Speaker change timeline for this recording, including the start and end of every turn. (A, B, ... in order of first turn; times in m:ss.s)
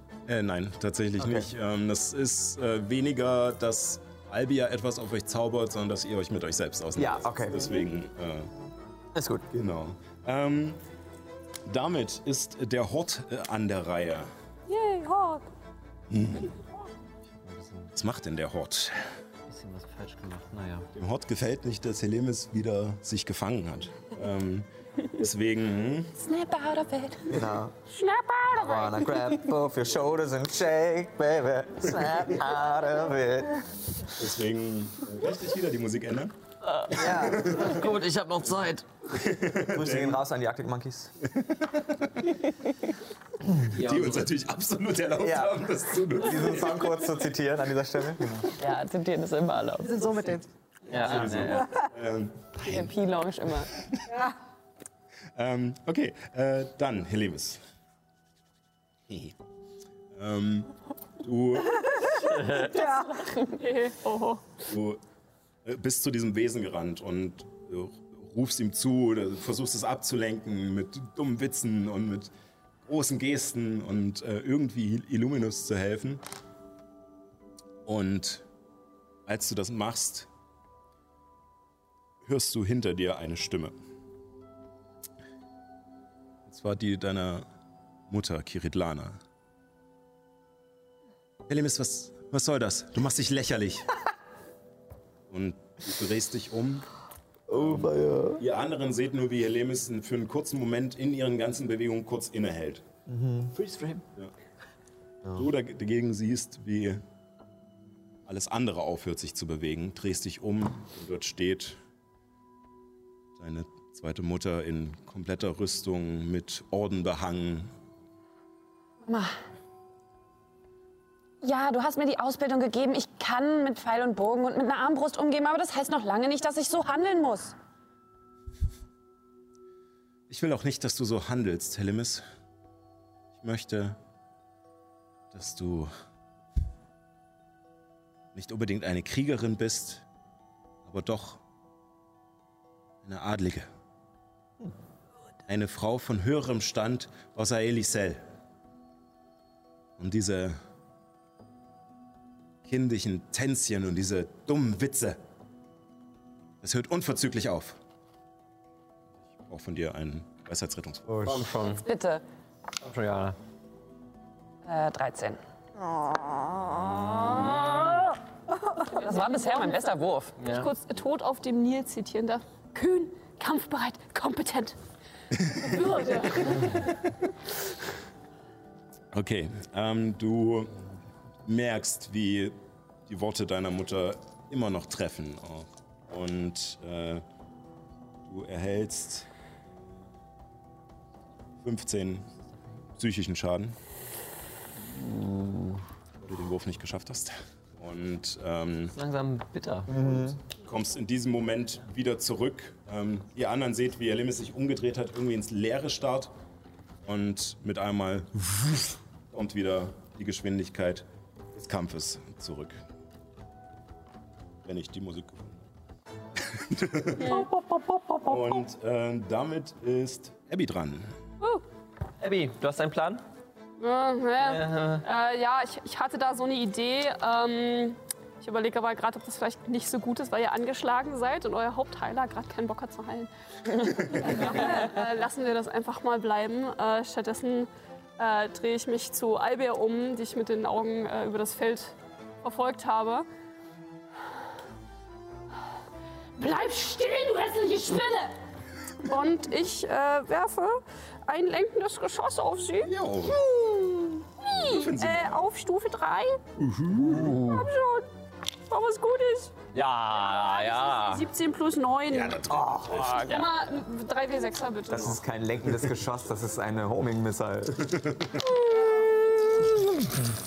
0:00.2-0:08.5 A
0:01.2-0:01.5 B
0:07.0-0:07.7 B
0:09.1-0:09.4 B
0:09.5-0:10.8 A
0:11.6-0:14.3 A
0:14.7-0:15.4 C
0:16.1-0:16.6 A
0:17.4-0:17.9 D
0:17.9-0:19.0 A
0:19.5-0:20.9 D
0:20.9-0:26.2 A
0:26.2-0:27.4 E
0:27.3-0:27.7 B
0:27.9-0:29.0 C
0:28.5-0:33.8 B
0:34.2-0:36.3 A
0:36.6-0:38.8 D
0:36.9-0:37.6 B
0:36.9-0:37.8 A
0:39.1-0:40.2 A
0:39.6-0:41.1 B
0:41.2-0:42.3 A
0:43.7-0:46.9 A
0:43.7-0:44.3 D
0:45.2-0:45.6 B
0:46.2-0:48.5 B
0:48.6-0:50.0 E
0:49.8-0:50.4 F
0:50.9-0:51.8 D
0:50.9-0:52.9 A
0:52.6-0:53.7 E
0:54.1-0:54.3 F
0:55.3-0:57.6 A
0:59.1-0:59.4 A
1:00.1-1:02.2 A
1:02.1-1:03.3 F
1:02.3-1:02.6 D
1:02.7-1:04.4 C
1:04.6-1:05.0 A
1:05.6-1:12.3 A
1:12.8-1:16.2 A
1:17.8-1:18.4 A
1:19.2-1:20.3 A
1:22.2-1:23.7 A
1:26.4-1:27.5 A
1:28.1-1:29.2 A
1:31.5-1:33.9 A
1:35.3-1:36.8 A
1:37.5-1:38.4 B
1:37.5-1:42.8 A
1:43.1-1:43.5 B
1:43.5-1:44.0 D
1:45.3-1:47.0 A
1:48.2-1:51.8 A
1:53.4-1:57.7 A
1:59.0-1:59.3 E
2:01.4-2:07.5 E
2:10.3-2:12.2 A
2:13.4-2:14.0 A
2:15.3-2:15.9 A
2:18.3-2:20.0 A
2:20.8-2:21.4 A
2:23.0-2:23.7 A
2:25.5-2:28.2 A
2:30.0-2:30.6 A
2:32.6-2:35.2 A
2:36.6-2:37.8 A
2:39.4-2:41.4 A
2:41.1-2:41.4 B
2:41.2-2:41.8 D
2:41.8-2:42.2 E
2:42.8-2:43.4 D
2:44.6-2:45.4 E
2:46.0-2:46.7 F
2:47.0-2:48.1 D
2:48.8-2:50.4 E
2:50.4-2:50.7 D
2:50.4-2:54.8 C
2:55.5-2:56.8 C
2:59.1-3:00.8 A
3:01.4-3:07.2 A
3:08.2-3:09.3 A
3:11.6-3:12.3 A
3:13.0-3:13.7 A
3:14.8-3:15.8 D
3:16.2-3:18.9 A
3:18.9-3:20.0 D
3:19.9-3:20.4 B
3:20.4-3:26.3 A
3:27.0-3:32.8 A
3:34.6-3:35.7 A
3:36.3-3:37.4 A
3:37.2-3:37.5 C
3:37.2-3:38.4 D
3:38.2-3:41.1 A
3:42.2-3:43.2 D
3:43.8-4:03.2 C
3:44.4-3:45.0 D
4:06.4-4:08.3 C
4:09.0-4:16.4 C
4:12.8-4:13.4 A
4:14.4-4:15.4 A
4:16.6-4:17.4 A
4:16.9-4:17.7 D
4:17.2-4:18.1 C
4:18.7-4:19.6 C
4:19.7-4:21.3 D
4:20.2-4:22.4 C
4:22.1-4:23.3 A
4:22.7-4:23.5 D
4:23.1-4:25.2 C
4:24.9-4:28.0 B
4:27.8-4:28.3 A
4:28.4-4:29.9 C